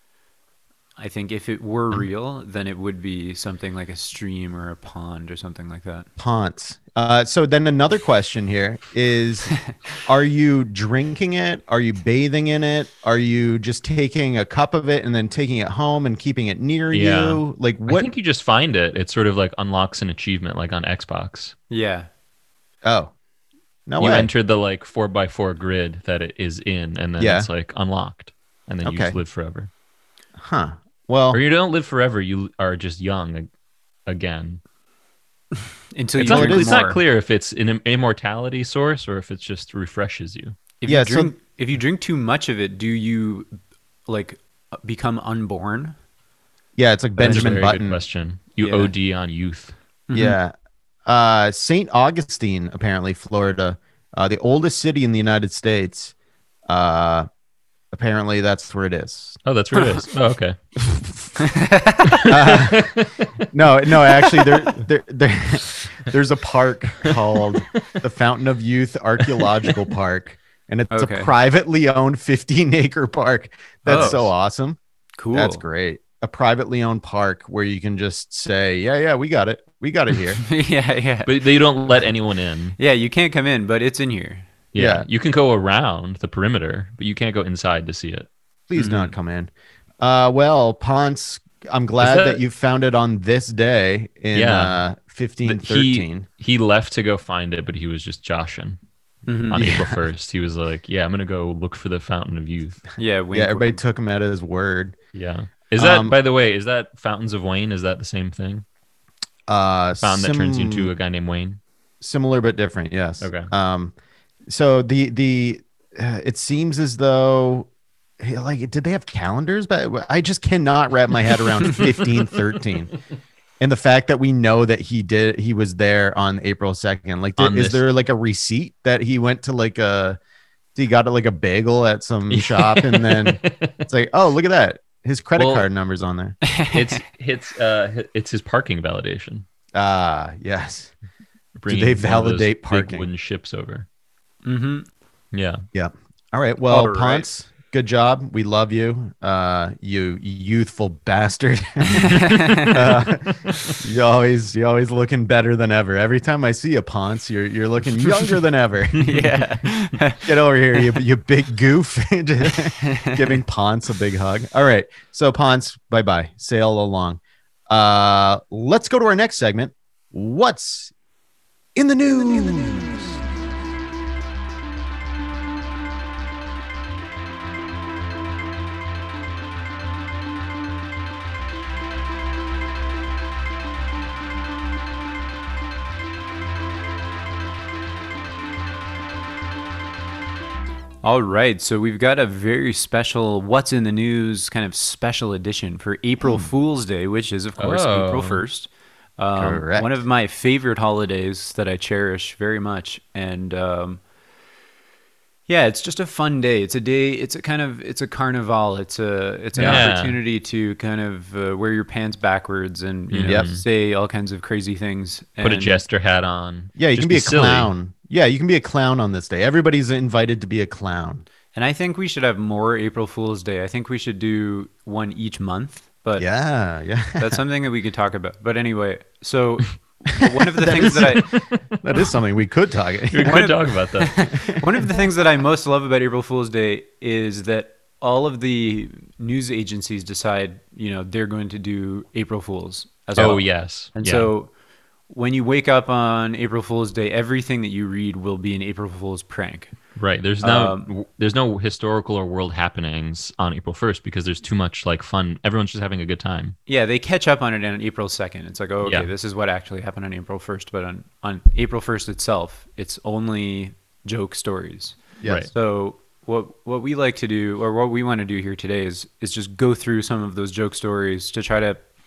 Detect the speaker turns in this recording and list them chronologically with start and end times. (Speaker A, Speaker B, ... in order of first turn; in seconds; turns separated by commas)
Speaker A: 1.0-6.1, Speaker B: 6.2-18.1, Speaker C: 16.9-21.6, Speaker A: 21.7-22.1, Speaker B: 22.8-23.1, Speaker B: 23.9-24.3, Speaker C: 24.0-29.7, Speaker B: 27.2-27.5, Speaker B: 28.8-29.2, Speaker B: 30.4-31.4, Speaker C: 31.3-33.5, Speaker C: 34.1-34.6, Speaker A: 35.9-37.0, Speaker B: 36.2-36.8, Speaker C: 36.2-40.6, Speaker A: 40.8-43.5, Speaker B: 40.9-41.4, Speaker A: 44.1-46.0, Speaker B: 46.8-48.0, Speaker C: 47.2-49.8, Speaker A: 48.6-48.9, Speaker A: 50.1-50.4, Speaker B: 50.1-50.5, Speaker B: 51.0-56.1, Speaker B: 56.7-57.3, Speaker B: 57.9-59.4, Speaker C: 59.5-60.6, Speaker B: 60.8-61.2, Speaker A: 61.4-62.3, Speaker C: 62.2-63.2, Speaker B: 62.3-74.8, Speaker A: 70.9-71.3, Speaker A: 73.9-74.3, Speaker C: 73.9-74.2, Speaker A: 75.2-75.6, Speaker B: 75.3-80.4, Speaker A: 80.5-81.3, Speaker C: 81.3-82.8, Speaker A: 82.8-84.5, Speaker C: 84.7-88.3, Speaker B: 84.8-85.1, Speaker B: 88.7-96.3, Speaker A: 88.8-89.1, Speaker C: 92.0-92.4, Speaker C: 94.3-94.8, Speaker C: 95.5-98.8, Speaker A: 99.3-99.6, Speaker C: 99.5-102.9, Speaker B: 99.5-100.0, Speaker A: 103.0-103.8, Speaker B: 103.3-105.0, Speaker C: 105.1-108.7, Speaker B: 105.8-106.2, Speaker B: 109.5-110.9, Speaker C: 110.0-111.6, Speaker B: 112.0-114.0, Speaker C: 113.2-113.5, Speaker B: 114.5-117.7, Speaker B: 118.2-122.9, Speaker B: 123.6-130.2, Speaker C: 127.4-127.8, Speaker B: 130.8-136.4, Speaker C: 132.3-133.8, Speaker C: 135.4-135.7, Speaker A: 136.5-137.0, Speaker C: 136.7-139.5, Speaker B: 139.8-140.9, Speaker C: 141.6-143.9, Speaker B: 141.7-143.1, Speaker A: 144.4-144.9, Speaker C: 145.3-145.6, Speaker B: 145.7-152.2, Speaker A: 146.7-147.3, Speaker A: 152.0-152.8, Speaker B: 152.7-159.2, Speaker A: 159.0-161.0, Speaker B: 160.2-170.9, Speaker A: 162.8-163.2, Speaker B: 171.8-173.2, Speaker A: 191.0-204.0, Speaker C: 197.6-198.4, Speaker B: 199.3-200.0, Speaker A: 205.5-215.8, Speaker B: 209.6-209.9, Speaker C: 209.6-210.2, Speaker C: 213.1-213.7, Speaker C: 215.4-217.7, Speaker B: 216.8-221.3, Speaker A: 221.6-226.3, Speaker B: 226.2-227.4, Speaker A: 227.2-231.2, Speaker B: 230.6-231.2, Speaker C: 230.8-232.1, Speaker B: 231.8-233.5, Speaker C: 233.1-234.2, Speaker A: 233.2-244.5, Speaker C: 243.2-244.3, Speaker A: 245.1-249.7, Speaker C: 250.0-256.6, Speaker A: 250.4-250.9, Speaker A: 256.7-265.0, Speaker C: 258.8-259.1, Speaker B: 265.2-265.5, Speaker C: 265.2-265.5, Speaker A: 265.5-271.8